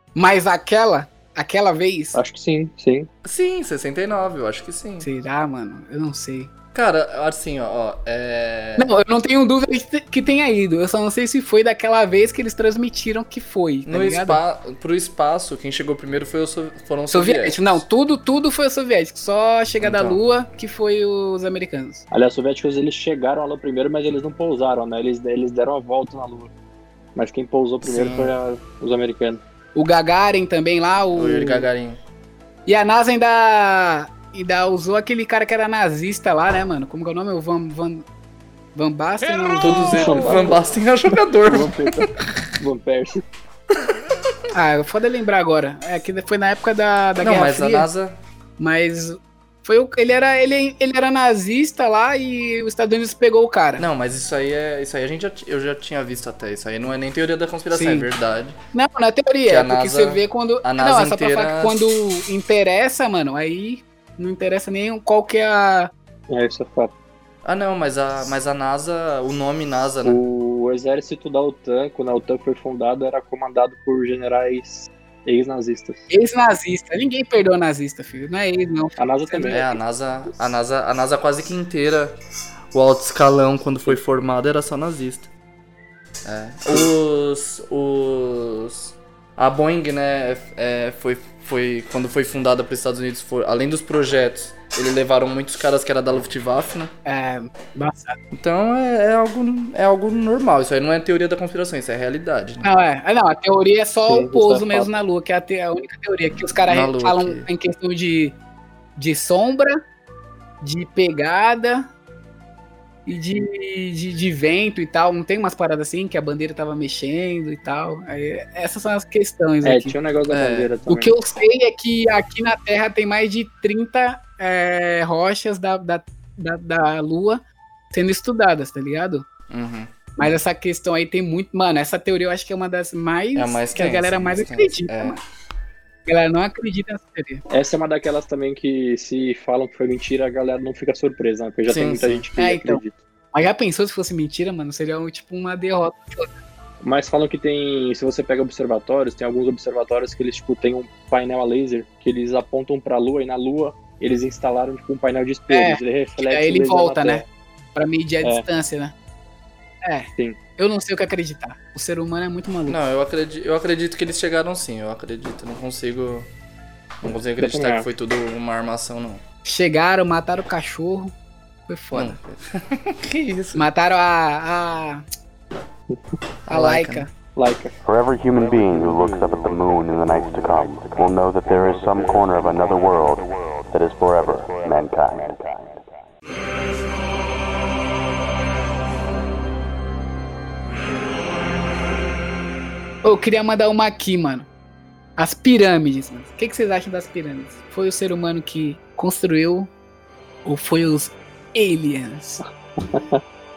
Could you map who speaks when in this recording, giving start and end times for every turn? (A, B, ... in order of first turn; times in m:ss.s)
0:00.2-0:02.2 A
0:02.2-0:03.1 B
0:03.2-0:05.1 C
0:05.0-0:06.5 A
0:06.7-0:08.9 C
0:08.8-0:14.4 A
0:13.9-0:17.8 C
0:17.1-0:22.0 A
0:19.8-0:20.2 C
0:22.1-0:26.5 B
0:27.2-0:29.4 B
0:27.8-0:28.3 C
0:29.8-0:31.7 A
0:31.2-0:32.0 C
0:32.7-0:38.0 A
0:38.8-0:40.5 A
0:39.6-0:42.1 C
0:39.9-0:40.6 B
0:41.4-0:43.2 B
0:44.5-0:47.9 A
0:47.2-0:48.2 C
0:48.6-0:53.9 A
0:53.8-0:58.6 C
0:57.7-0:58.1 A
0:58.7-1:05.9 A
0:59.5-1:01.8 C
1:06.3-1:06.9 B
1:07.4-1:10.2 C
1:10.0-1:16.0 B
1:16.1-1:19.8 A
1:19.0-1:19.6 B
1:19.5-1:22.2 C
1:22.7-1:25.3 C
1:26.2-1:36.9 C
1:37.1-1:38.2 A
1:38.3-1:42.7 C
1:42.6-1:48.4 A
1:44.1-1:44.9 B
1:46.6-1:47.5 C
1:49.0-1:49.8 A
1:50.6-1:51.9 A
1:53.1-2:00.0 A
1:59.6-2:01.2 B
2:00.3-2:00.7 C
2:00.9-2:07.4 A
2:07.9-2:09.2 A
2:09.5-2:09.9 C
2:10.2-2:15.2 A
2:13.4-2:15.2 C
2:16.1-2:17.4 A
2:17.5-2:23.0 B
2:21.7-2:22.3 C
2:22.4-2:22.8 A
2:23.3-2:26.3 A
2:26.8-2:37.3 B
2:35.5-2:37.2 A
2:37.8-2:38.9 A
2:39.8-2:42.8 A
2:42.7-2:46.3 C
2:47.0-2:49.2 C
2:47.4-2:47.9 B
2:49.5-2:51.1 A
2:51.7-2:52.2 A
2:51.9-2:53.6 C
2:53.6-2:55.0 A
2:56.5-2:57.1 C
2:56.5-2:57.1 A
2:57.4-2:57.8 B
2:57.8-3:05.8 D
3:13.0-3:14.5 A
3:15.2-3:19.7 A
3:20.4-3:22.4 A
3:22.8-3:23.2 B